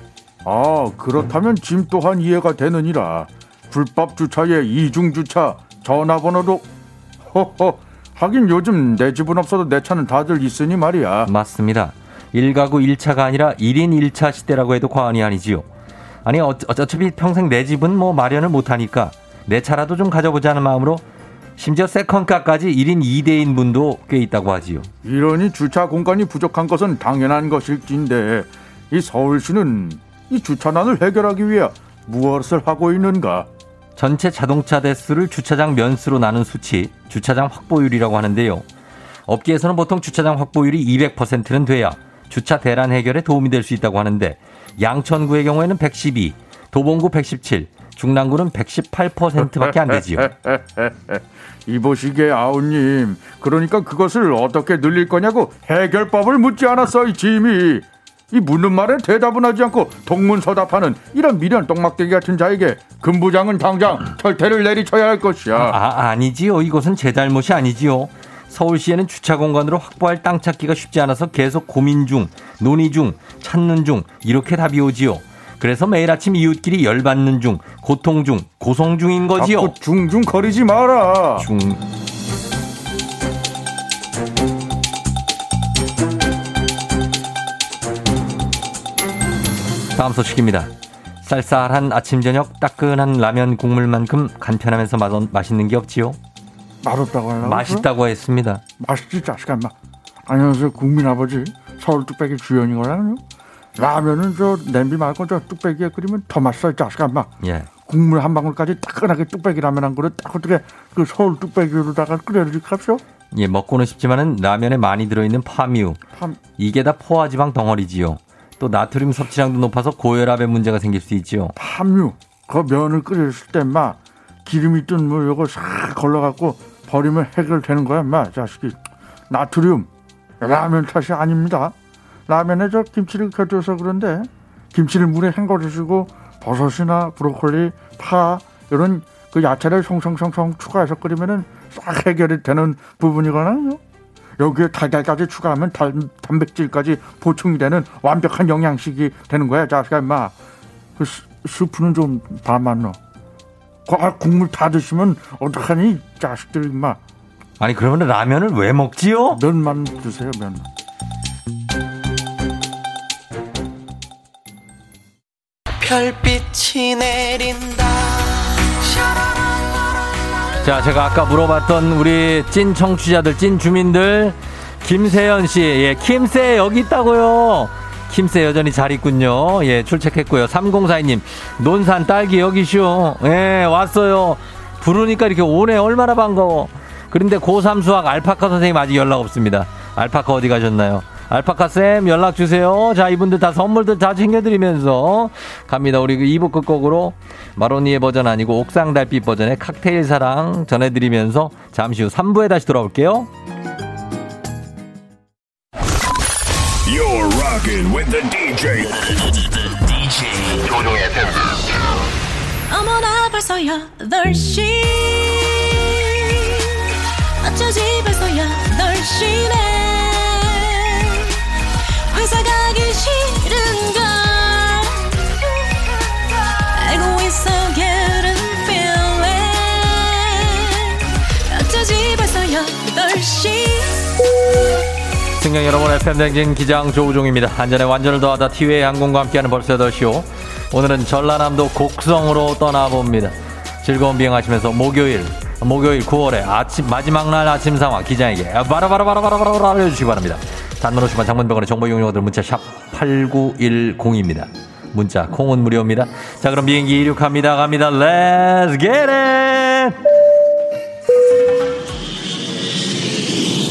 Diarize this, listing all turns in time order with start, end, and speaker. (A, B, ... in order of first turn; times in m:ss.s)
0:00.4-0:06.6 A
0:07.3-0:11.3 A
0:11.2-0:15.6 B
0:16.2-0:21.0 B
0:21.6-0:24.9 B
0:25.0-0:33.5 A
0:34.0-0:38.6 B
0:39.3-0:50.3 B
0:49.4-1:05.8 A
1:05.5-1:19.7 B
1:19.4-1:21.5 A
1:21.4-1:21.8 B
1:29.9-1:30.7 B
1:31.2-1:36.2 B
1:36.8-1:37.8 A
1:37.4-1:38.6 B
1:38.8-1:39.7 A
1:40.3-1:43.2 A
1:43.8-1:47.3 A
1:47.4-1:47.7 B
1:47.8-1:53.0 A
1:53.3-1:56.0 B
1:56.1-1:56.4 A
1:56.6-2:01.5 B
2:01.6-2:08.8 A
2:09.3-2:09.9 A
2:10.4-2:11.7 A
2:12.3-2:23.8 A
2:24.4-2:30.3 A
2:31.0-2:33.0 A
2:33.8-2:37.0 A
2:37.6-2:39.4 B
2:39.3-2:40.6 A
2:45.8-2:49.8 C
2:50.6-3:23.3 B
3:26.8-3:31.8 D
3:32.7-3:36.4 E
3:37.4-3:41.3 E
3:42.1-3:45.3 E
3:46.7-3:54.0 E
3:55.4-4:20.0 B